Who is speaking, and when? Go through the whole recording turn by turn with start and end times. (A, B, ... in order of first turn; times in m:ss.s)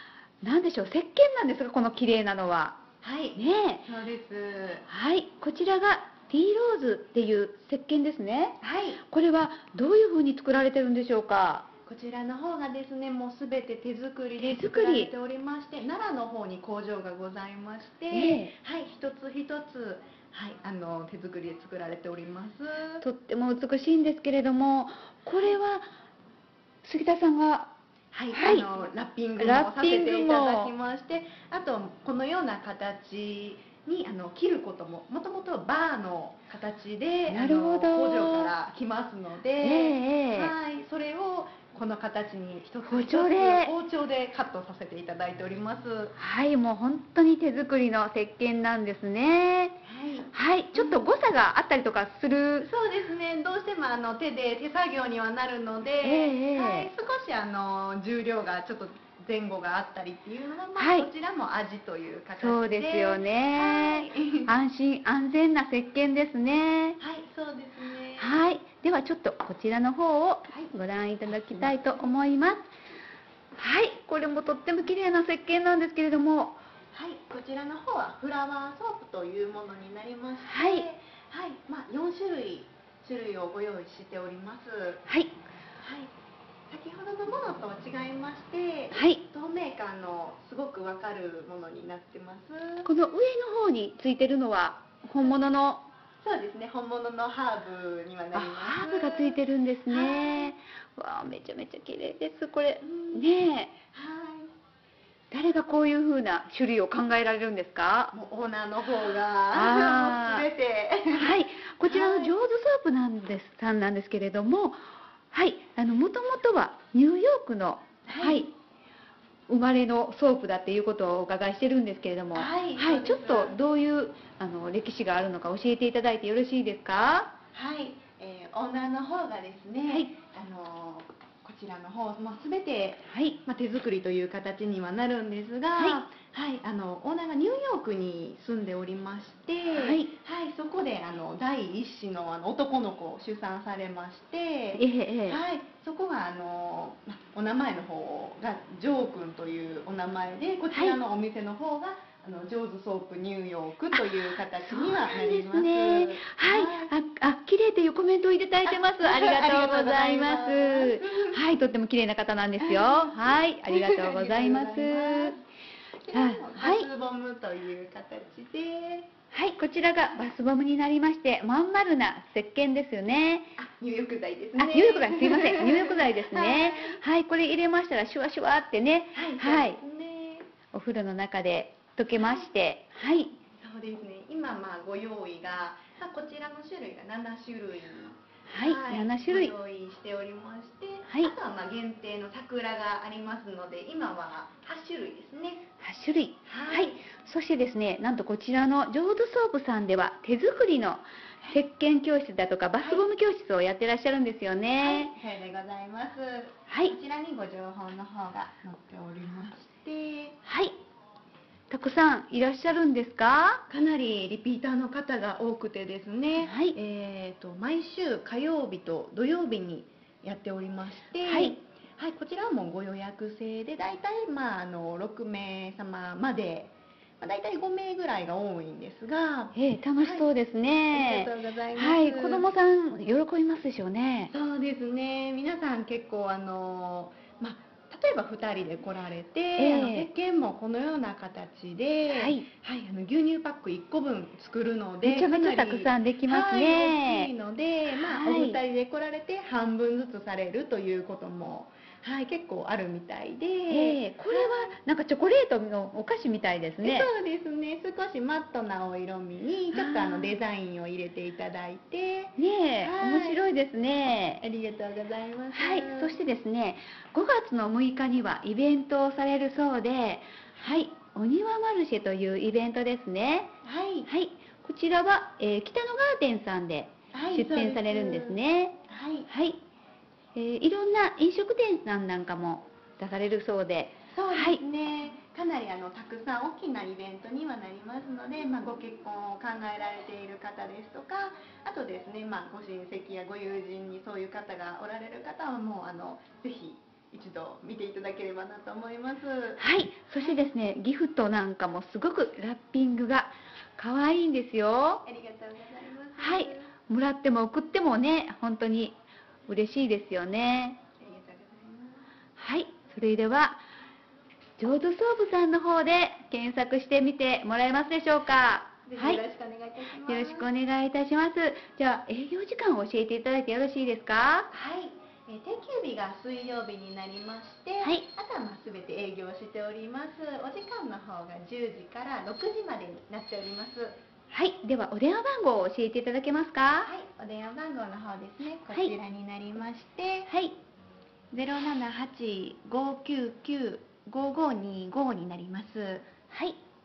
0:00.4-0:02.8 A
0:03.0-0:04.8 B
0:03.4-0:03.8 A
0:04.9-0:11.7 A
0:08.6-0:09.0 B
0:11.8-0:23.0 B
0:14.4-0:15.1 A
0:18.1-0:18.5 A
0:23.0-0:25.8 A
0:26.8-0:27.8 A
0:28.1-0:46.1 B
0:28.3-0:28.7 A
0:29.4-0:30.7 A
0:37.3-0:38.5 A
0:39.6-0:40.5 A
0:42.8-0:43.7 A
0:46.2-0:49.8 A
0:49.8-0:51.1 B
0:50.3-0:52.7 A
0:52.6-1:04.5 B
0:56.0-0:56.9 A
1:00.8-1:01.1 A
1:02.4-1:07.0 A
1:07.0-1:08.4 B
1:08.2-1:12.7 A
1:10.5-1:10.7 B
1:11.3-1:12.1 B
1:13.6-1:16.6 A
1:16.9-1:25.0 B
1:20.4-1:20.8 A
1:25.0-1:25.3 A
1:25.8-1:26.1 B
1:26.7-1:32.9 B
1:28.9-1:29.2 A
1:32.8-1:35.9 A
1:36.2-1:40.5 B
1:38.3-1:43.7 A
1:42.8-1:43.3 B
1:43.9-1:44.5 B
1:45.3-1:48.1 A
1:48.1-1:52.3 B
1:49.5-1:50.4 A
1:51.1-1:54.8 A
1:55.3-1:58.5 A
1:58.1-1:58.4 B
1:59.5-2:07.3 A
2:02.3-2:03.6 B
2:07.5-2:36.9 B
2:13.1-2:13.4 A
2:19.7-2:20.1 A
2:24.7-2:25.4 A
2:30.7-2:31.0 A
2:33.9-2:45.4 A
2:38.6-2:41.4 B
2:42.6-2:45.4 B
2:46.0-2:49.1 B
2:46.1-2:46.9 A
2:49.3-2:53.5 A
2:53.6-2:57.0 B
2:54.6-2:59.8 A
2:59.1-3:00.5 B
3:00.7-3:03.4 A
3:02.1-3:02.5 B
3:03.6-3:15.7 B
3:08.5-3:09.5 A
3:11.1-3:11.3 A
3:15.8-3:25.1 A
3:16.4-3:17.0 B
3:22.8-3:23.1 B
3:24.8-3:30.4 B
3:26.7-3:26.9 A
3:30.4-3:30.8 A
3:31.7-3:33.6 A
3:33.7-3:50.3 B
3:36.4-3:36.8 A
3:41.2-3:41.6 A
3:49.5-3:54.3 A
3:50.9-3:52.5 B
3:54.3-4:14.7 B
3:59.6-4:00.1 A
4:02.1-4:02.4 A
4:05.0-4:07.3 A
4:08.0-4:08.6 A
4:13.7-4:17.1 A
4:16.8-4:23.4 B
4:19.7-4:20.4 A
4:22.4-4:24.4 A
4:24.4-4:26.2 B
4:25.5-4:33.5 A
4:33.6-4:34.1 B
4:34.0-4:38.8 A
4:37.1-4:39.3 B
4:39.3-4:39.6 A
4:40.3-4:44.6 A
4:44.1-4:59.6 B
4:59.6-5:05.0 A
5:05.0-5:06.7 B
5:06.2-5:08.9 A
5:09.5-5:10.8 A
5:11.0-5:12.1 B
5:12.4-5:13.6 A
5:14.6-5:19.2 A
5:18.9-5:20.5 B
5:20.0-5:24.5 A
5:24.5-5:34.0 B
5:34.3-5:36.9 A
5:36.8-5:40.3 B
5:40.3-5:40.6 A
5:41.3-5:46.1 B
5:46.3-5:46.6 A